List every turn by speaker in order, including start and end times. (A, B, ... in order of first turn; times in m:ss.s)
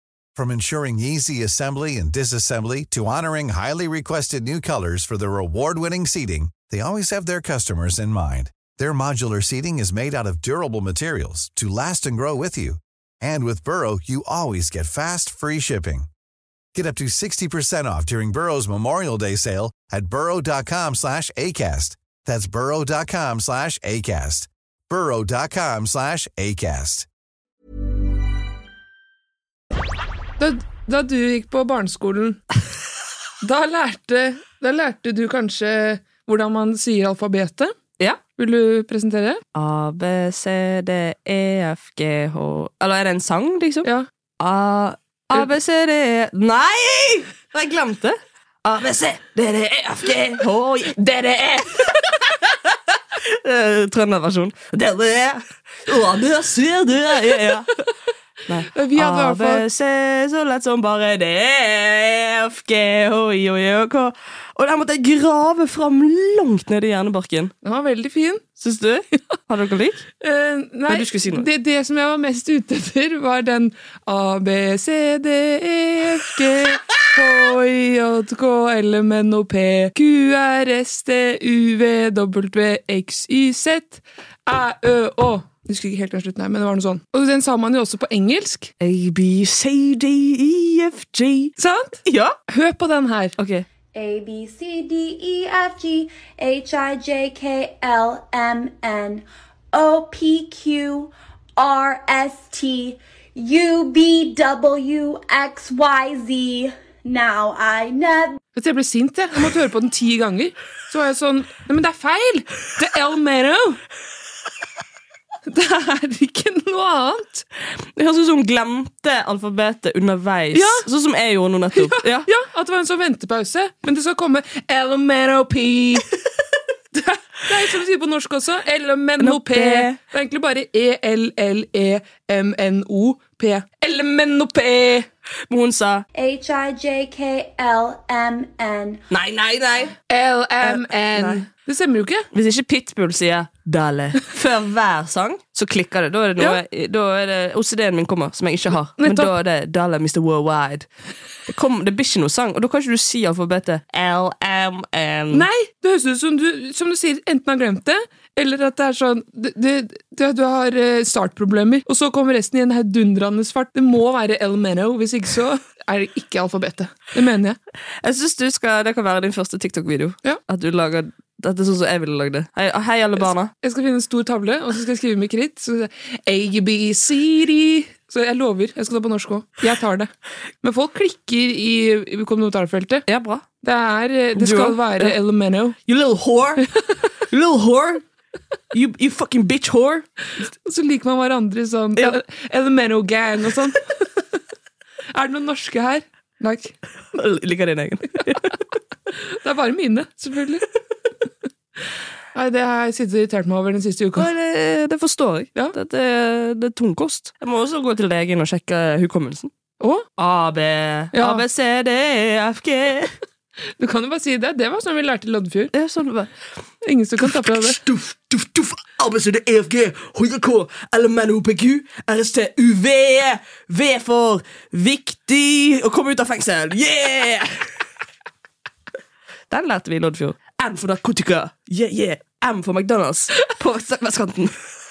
0:00.4-0:16.1 A
0:16.7-0:27.0 A
0:30.4-0:32.4 B
0:33.4-0:37.7 B
0:38.3-0:39.4 B
0:39.5-0:43.9 C
0:44.4-0:52.2 C
0:53.2-0:57.8 C
0:58.5-1:07.5 C
0:58.7-0:59.6 B
1:07.6-1:08.4 B
1:08.6-1:10.0 C
1:10.2-1:28.7 B
1:10.9-1:11.5 C
1:28.8-1:31.5 C
1:31.6-1:33.3 B
1:32.0-1:32.4 C
1:33.4-1:33.6 C
1:33.9-1:48.4 D
1:48.5-1:53.8 B
1:55.5-1:57.4 B
1:58.0-2:02.3 C
2:00.5-2:00.9 B
2:01.7-2:06.1 B
2:06.9-2:15.1 B
2:09.2-2:10.0 C
2:15.5-2:16.0 C
2:16.1-2:19.0 D
2:19.1-2:20.0 C
2:20.1-2:22.2 B
2:20.6-2:21.4 C
2:22.3-2:30.9 C
2:29.0-2:29.3 B
2:31.5-2:35.5 C
2:35.3-2:47.6 B
2:48.0-2:53.5 C
2:53.6-3:00.1 B
3:00.6-3:03.0 B
3:03.1-3:03.4 C
3:03.6-3:05.8 B
3:04.3-3:05.2 C
3:05.8-3:06.6 C
3:07.3-3:08.0 C
3:08.7-3:10.1 C
3:10.6-3:13.8 B
3:15.1-3:16.8 B
3:17.1-3:18.5 C
3:19.4-3:20.6 B
3:22.3-3:24.3 B
3:24.2-3:29.5 C
3:29.8-3:30.0 B
3:30.2-3:33.1 C
3:31.1-3:31.4 B
3:33.8-3:35.7 B
3:35.7-3:36.3 C
3:36.8-3:37.8 B
3:37.2-3:47.7 C
3:49.5-3:54.6 C